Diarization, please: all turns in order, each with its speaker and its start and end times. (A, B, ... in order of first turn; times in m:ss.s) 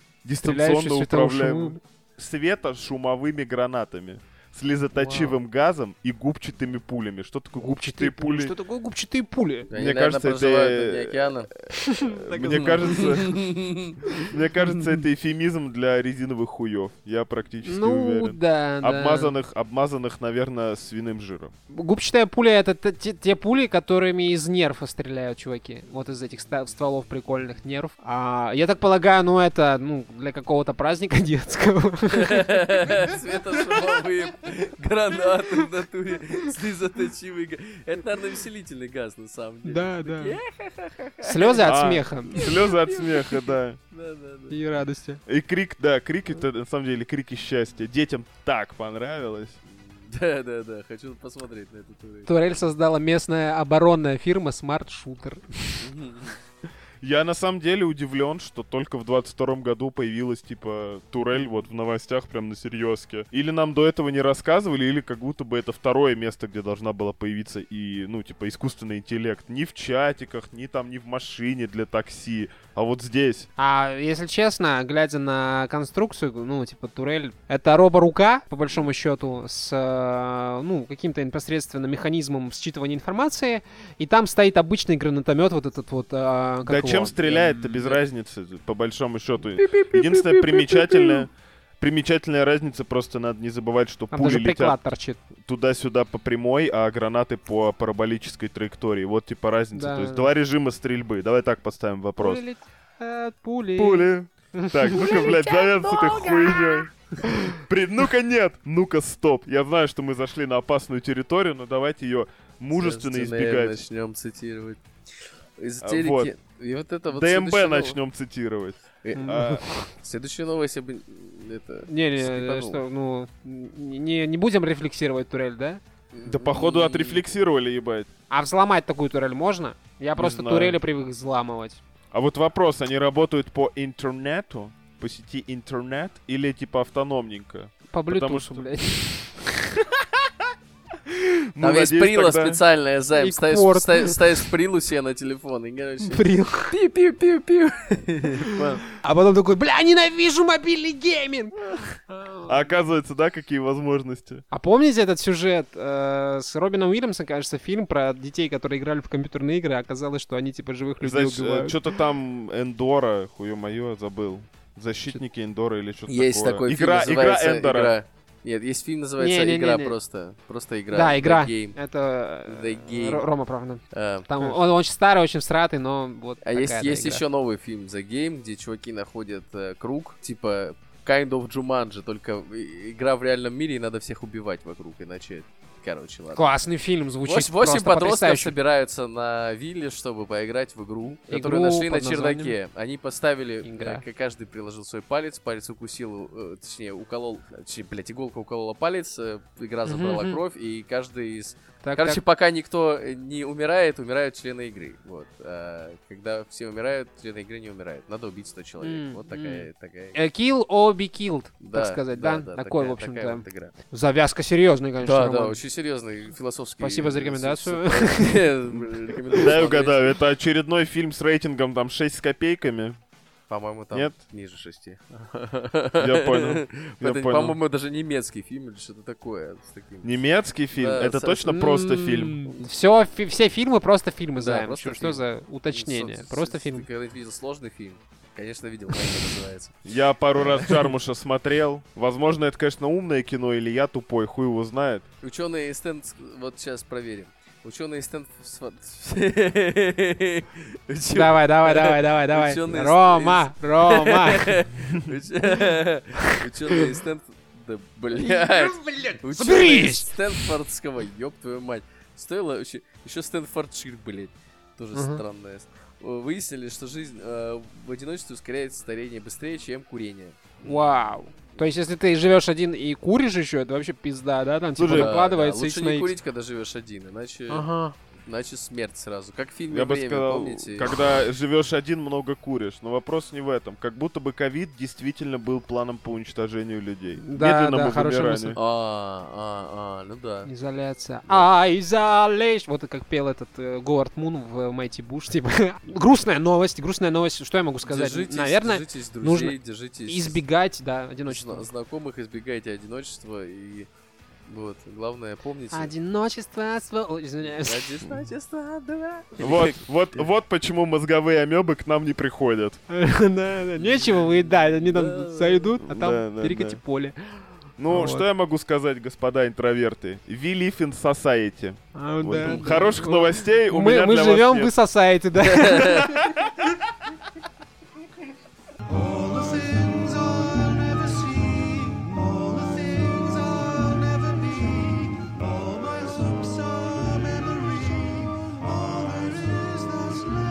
0:00.2-0:08.5 A
0:00.4-0:01.8 B
0:05.0-0:05.3 B
0:07.6-0:09.7 B
0:09.7-0:11.5 C
0:09.7-0:13.4 A
0:11.7-0:13.3 B
0:12.5-0:14.0 C
0:14.0-0:14.3 B
0:14.3-0:21.5 A
0:17.6-0:19.4 B
0:21.7-0:33.6 B
0:32.1-0:41.7 C
0:39.6-0:40.4 B
0:41.2-0:42.4 B
0:41.6-0:43.8 A
0:42.3-0:44.6 C
0:44.5-0:45.2 B
0:45.3-0:49.6 A
0:49.7-0:52.3 C
0:52.3-0:55.9 B
0:55.8-0:56.4 C
0:57.0-1:13.5 A
1:13.6-1:28.0 B
1:26.7-1:34.8 A
1:29.6-1:31.2 C
1:34.1-1:35.2 B
1:35.4-1:42.4 A
1:39.7-1:40.3 B
1:42.2-1:47.6 B
1:43.8-1:46.9 A
1:47.5-1:53.8 A
1:52.7-1:54.8 C
1:55.6-1:58.0 C
1:55.8-1:56.3 A
1:57.1-1:59.6 A
1:59.0-2:02.8 C
1:59.2-1:59.9 B
2:01.9-2:05.8 B
2:06.1-2:07.2 C
2:06.2-2:08.1 A
2:08.3-2:11.8 B
2:10.2-2:10.8 A
2:12.1-2:18.7 A
2:17.9-2:19.8 B
2:21.1-2:22.6 A
2:21.6-2:28.8 C
2:23.2-2:24.4 B
2:26.0-2:26.8 B
2:28.4-2:32.5 B
2:32.5-2:34.4 A
2:34.5-2:41.8 B
2:41.0-2:47.9 A
2:46.1-2:51.8 C
2:49.2-2:50.0 B
2:50.9-2:57.2 B
2:52.5-2:53.3 C
2:53.9-2:54.3 C
2:56.4-3:06.4 C
3:06.4-3:08.6 B
3:07.2-3:30.2 C
3:11.3-3:12.6 B
3:13.6-3:14.0 B
3:19.9-3:20.4 B
3:21.8-3:22.2 B
3:28.8-3:35.6 B
3:31.6-3:33.7 C
3:35.0-3:40.2 C
3:36.8-3:38.5 B
3:39.3-3:43.0 A
3:43.5-3:50.2 C
3:46.0-3:47.6 A
3:50.0-3:52.4 A
3:50.7-3:51.5 C
3:51.5-3:56.9 B
3:54.4-3:59.8 C
3:59.8-4:05.0 A
4:00.4-4:00.9 C
4:05.2-4:31.0 C
4:11.1-4:14.5 B
4:16.3-4:16.8 B
4:18.2-4:20.5 B
4:24.9-4:25.2 B
4:30.6-4:36.1 B
4:34.8-4:35.2 A
4:34.9-4:37.7 C
4:37.5-4:38.0 B
4:38.3-4:41.0 C
4:39.7-4:48.6 A
4:47.2-4:48.6 B
4:48.6-4:50.5 C
4:50.5-4:59.6 B
4:57.9-5:00.4 C
5:00.1-5:01.7 B
5:01.3-5:03.9 C
5:04.5-5:05.9 C
5:05.7-5:07.9 B
5:07.4-5:09.8 C
5:09.4-5:12.8 A
5:12.9-5:18.3 B
5:13.8-5:15.8 C
5:15.8-5:16.8 A
5:17.8-5:24.7 A
5:22.0-5:26.4 B
5:22.4-5:22.9 C
5:25.4-5:26.3 C
5:29.4-5:34.8 B
5:36.0-5:38.1 B
5:39.5-5:40.2 B